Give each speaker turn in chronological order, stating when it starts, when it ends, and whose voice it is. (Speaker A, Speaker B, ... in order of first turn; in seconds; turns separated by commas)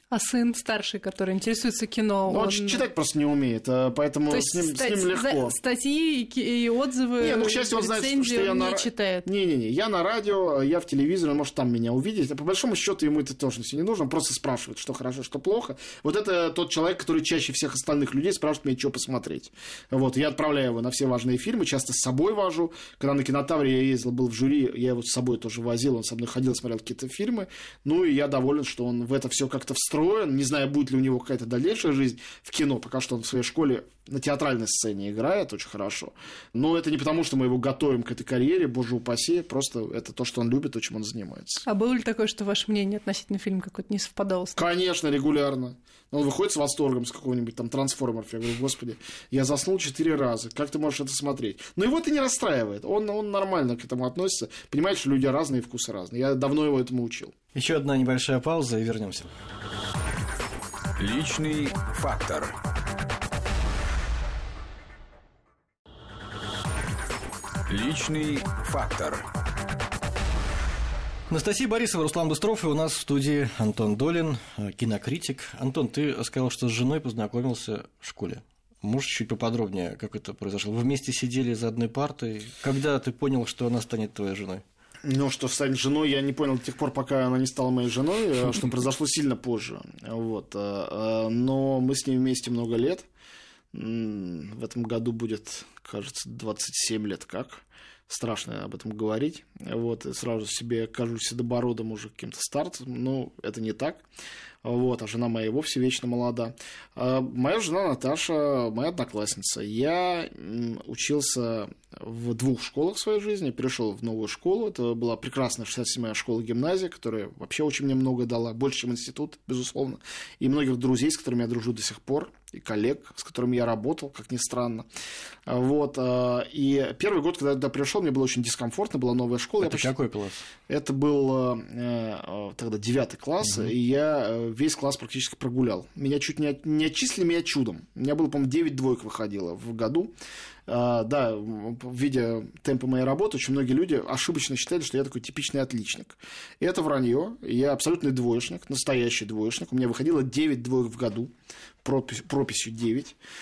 Speaker A: 0.1-2.9, Speaker B: 2.3-5.6, Speaker A: 4.3-9.3, Speaker B: 7.2-41.6, Speaker A: 41.7-44.6, Speaker B: 44.5-57.3, Speaker C: 57.5-59.3, Speaker D: 61.0-62.6, Speaker D: 67.7-69.4, Speaker C: 71.3-84.6, Speaker B: 85.0-93.1, Speaker B: 93.7-104.0, Speaker B: 104.6-124.9, Speaker B: 125.5-129.9, Speaker C: 129.6-130.5, Speaker B: 130.7-140.1, Speaker C: 133.4-133.7, Speaker B: 140.7-151.3, Speaker B: 151.8-153.2